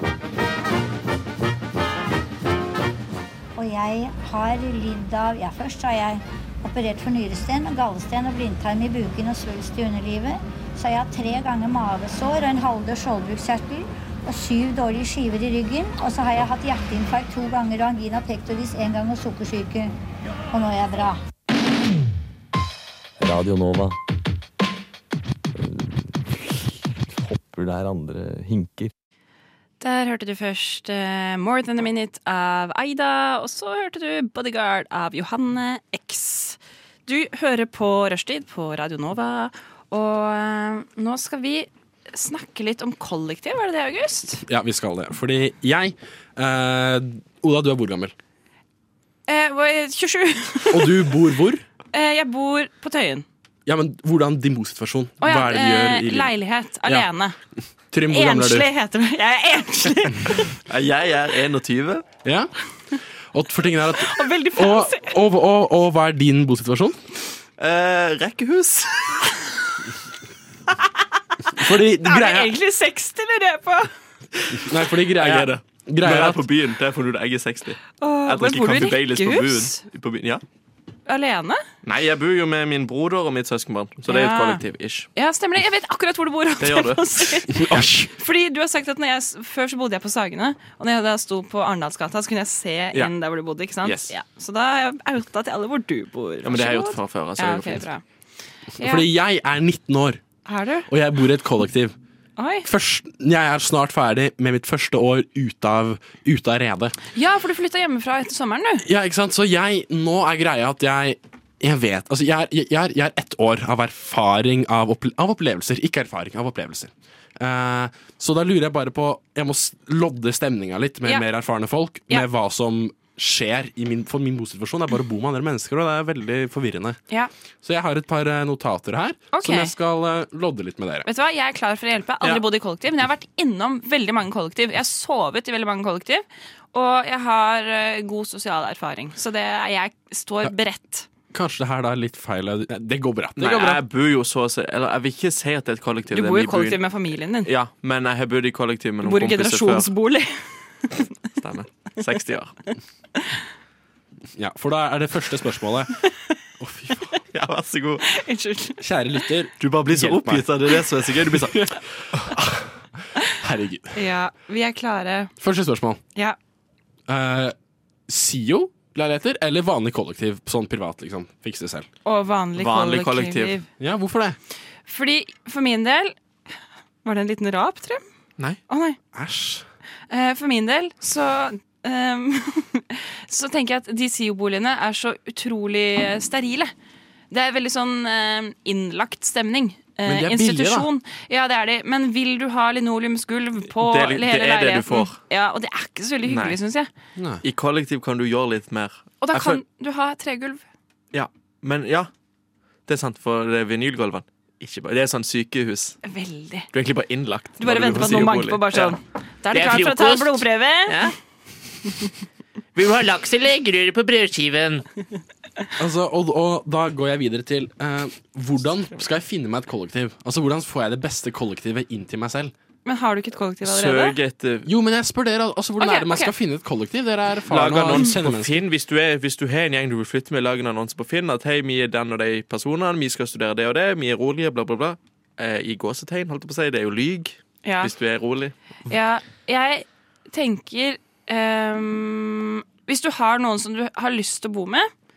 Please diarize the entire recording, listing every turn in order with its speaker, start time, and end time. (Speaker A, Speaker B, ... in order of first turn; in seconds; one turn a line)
Speaker A: 3.5-19.9
Speaker A: 20.5-21.2
Speaker B: 23.2-24.0
Speaker B: 25.5-28.9
Speaker C: 29.8-44.4
Speaker D: 44.4-48.1
Speaker C: 49.3-51.1
Speaker D: 50.7-51.6
Speaker C: 51.9-53.2
Speaker D: 53.7-56.3
Speaker C: 55.2-57.4
Speaker D: 57.9-58.7
Speaker C: 58.1-60.5
Speaker E: 60.7-62.0
Speaker D: 62.2-62.5
Speaker D: 63.3-67.0
Speaker C: 64.0-65.2
Speaker E: 67.6-69.3
Speaker D: 71.5-72.5
Speaker C: 72.0-73.9
Speaker E: 74.3-80.4
Speaker D: 74.5-76.4
Speaker C: 78.0-79.8
Speaker C: 81.1-81.6
Speaker E: 81.8-85.1
Speaker C: 84.1-84.6
Speaker C: 85.2-98.0
Speaker E: 86.6-87.9
Speaker D: 87.5-88.1
Speaker E: 93.8-94.1
Speaker E: 96.4-97.9
Speaker C: 98.8-99.1
Speaker D: 98.8-100.2
Speaker C: 100.5-100.9
Speaker D: 100.9-102.0
Speaker C: 102.4-102.7
Speaker D: 102.6-107.0
Speaker C: 107.1-108.8
Speaker D: 108.8-127.0
Speaker D: 127.6-131.1
Speaker C: 129.3-129.7
Speaker C: 131.1-141.1
Speaker D: 141.3-143.8
Speaker E: 143.4-146.8
Speaker C: 146.1-147.5
Speaker E: 147.4-149.9
Speaker C: 149.0-151.1
Speaker E: 151.4-152.6
Speaker D: 154.3-156.0
Speaker D: 156.6-157.1
Speaker E: 157.3-158.1
Speaker C: 158.1-158.8
Speaker D: 158.8-160.6
Speaker E: 159.6-162.2
Speaker D: 161.3-162.7
Speaker D: 163.2-164.0
Speaker C: 163.9-165.3
Speaker D: 165.4-166.0
Speaker D: 167.1-167.6
Speaker D: 168.1-171.9
Speaker C: 172.1-173.7
Speaker E: 172.6-173.6
Speaker D: 173.8-174.4
Speaker C: 174.9-176.2
Speaker C: 177.0-178.0
Speaker C: 178.7-179.0
Speaker D: 179.1-179.7
Speaker C: 180.1-186.7
Speaker C: 187.3-196.9
Speaker D: 190.1-190.9
Speaker E: 193.8-195.2
Speaker E: 196.3-196.6
Speaker D: 197.2-197.4
Speaker E: 197.4-199.6
Speaker C: 199.2-200.6
Speaker E: 201.1-202.1
Speaker E: 202.9-206.0
Speaker C: 206.0-206.7
Speaker E: 206.7-209.0
Speaker C: 207.6-211.1
Speaker F: 209.5-211.2
Speaker F: 212.8-214.8
Speaker D: 215.8-222.5
Speaker C: 222.8-224.2
Speaker E: 223.6-224.7
Speaker D: 224.7-228.6
Speaker C: 225.8-226.3
Speaker E: 227.5-238.5
Speaker C: 237.7-237.9
Speaker C: 238.9-244.9